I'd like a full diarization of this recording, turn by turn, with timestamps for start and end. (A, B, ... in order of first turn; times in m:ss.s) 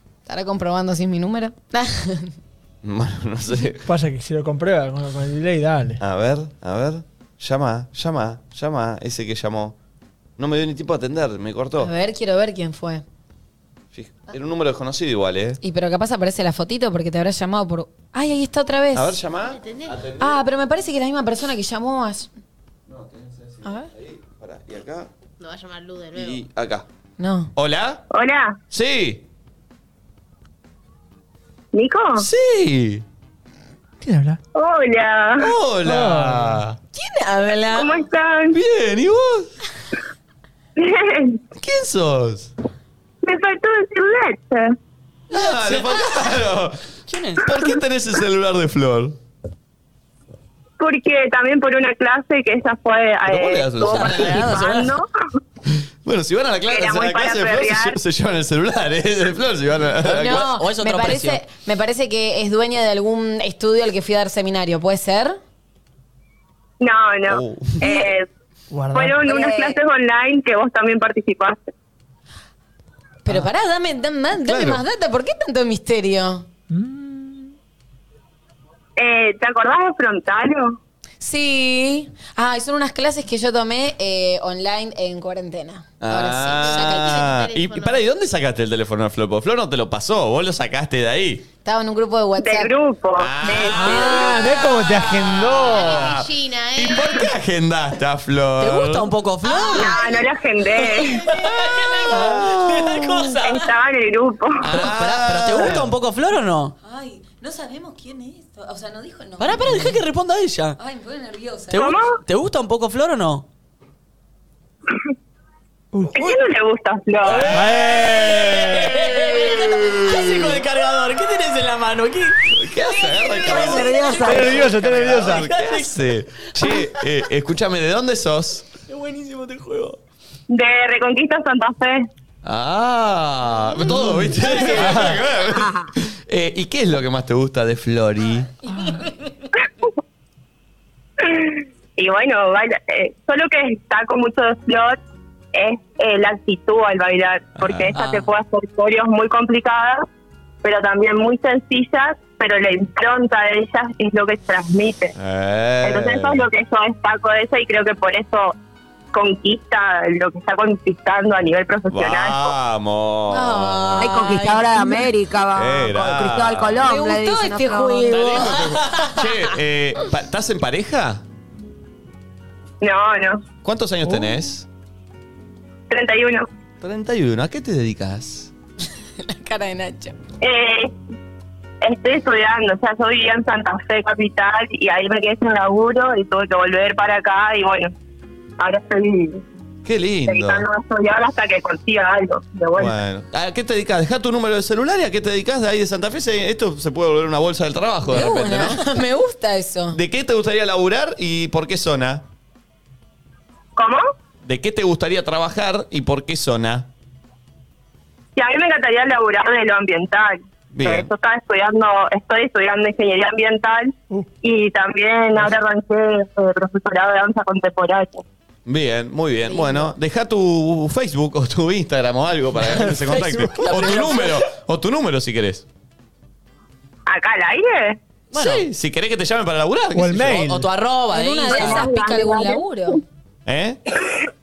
0:00.3-0:02.3 A
0:02.8-0:03.9 B
0:03.8-0:06.0 C
0:06.0-0:09.8 B
0:10.4-0:11.9 B
0:11.8-0:13.0 A
0:13.9-0:15.6 B
0:15.6-0:19.2 A
0:18.9-0:20.4 B
0:19.4-0:20.0 D
0:20.2-0:22.3 A
0:22.9-0:25.1 B
0:25.4-0:26.4 D
0:26.1-0:26.8 B
0:27.2-0:27.5 A
0:27.5-0:28.0 B
0:28.1-0:28.6 E
0:28.7-0:29.2 B
0:31.7-0:32.3 E
0:32.2-0:33.0 B
0:34.0-0:34.4 C
0:34.5-0:35.5 E
0:35.4-0:36.8 B
0:35.8-0:36.6 C
0:36.9-0:38.0 A
0:37.7-0:38.6 E
0:38.5-0:39.5 B
0:40.8-0:41.4 E
0:41.5-0:42.5 B
0:43.2-0:44.7 E
0:45.3-0:46.8 B
0:45.3-0:46.0 F
0:47.1-0:47.4 F
0:47.4-0:49.2 B
0:50.8-0:55.1 E
0:53.2-0:54.7 B
0:53.8-0:54.9 F
0:56.0-1:00.5 B
0:56.7-0:58.0 E
1:00.0-1:01.4 F
1:00.1-1:05.4 A
1:06.8-1:08.2 E
1:07.3-1:08.0 B
1:08.7-1:09.2 C
1:08.9-1:11.6 E
1:09.2-1:09.8 G
1:13.2-1:16.4 A
1:14.4-1:14.8 B
1:16.7-1:17.5 C
1:19.0-1:20.8 E
1:21.2-1:27.3 A
1:26.0-1:31.4 B
1:26.4-1:28.0 D
1:31.6-1:32.7 A
1:32.4-1:34.5 E
1:33.2-1:39.1 B
1:33.7-1:36.2 C
1:35.6-1:37.2 D
1:38.6-1:40.0 F
1:39.4-1:40.1 A
1:39.7-1:41.2 E
1:40.9-1:43.7 F
1:42.2-1:43.0 B
1:43.4-1:44.6 E
1:44.6-1:45.9 B
1:44.6-1:46.7 F
1:46.8-1:50.0 A
1:49.4-1:50.8 F
1:50.8-1:51.9 A
1:51.7-1:53.4 F
1:51.7-1:52.2 E
1:55.9-1:56.3 C
1:56.1-1:57.6 E
1:57.2-2:06.8 F
1:57.3-2:00.6 B
1:57.5-1:58.4 C
2:02.5-2:08.7 B
2:03.4-2:04.6 G
2:04.2-2:05.4 C
2:08.9-2:10.0 F
2:10.5-2:12.0 E
2:12.4-2:18.5 B
2:14.7-2:15.1 C
2:15.5-2:15.8 G
2:18.7-2:19.0 A
2:21.2-2:25.0 E
2:25.5-2:30.0 E
2:27.6-2:27.9 B
2:27.9-2:28.3 F
2:30.6-2:35.1 E
2:35.2-2:36.5 B
2:35.8-2:38.5 E
2:39.1-2:42.5 E
2:41.9-2:44.2 B
2:43.3-2:45.1 A
2:44.0-2:48.3 G
2:45.5-2:46.8 B
2:46.8-2:49.2 A
2:48.1-2:51.2 B
2:48.3-2:48.8 F
2:52.8-2:53.4 E
2:53.6-2:54.7 B
2:55.9-2:56.5 E
2:56.8-2:58.5 B
2:59.2-3:00.1 A
3:00.4-3:00.9 E
3:01.8-3:07.9 E
3:08.6-3:09.4 E
3:09.8-3:10.6 B
3:10.3-3:12.9 E
3:12.8-3:18.8 B
3:18.1-3:20.0 A
3:19.9-3:22.2 B
3:24.4-3:26.9 B
3:28.4-3:38.2 E
3:30.7-3:31.1 B
3:38.6-3:45.6 B
3:42.8-3:43.8 C
3:42.8-3:44.4 F
3:47.1-3:48.0 E
3:48.3-3:48.7 F
3:48.3-3:50.5 B
3:49.9-3:50.7 C
3:50.3-3:51.9 F
3:51.1-3:53.0 A
3:51.5-3:52.6 E
3:53.4-3:53.8 B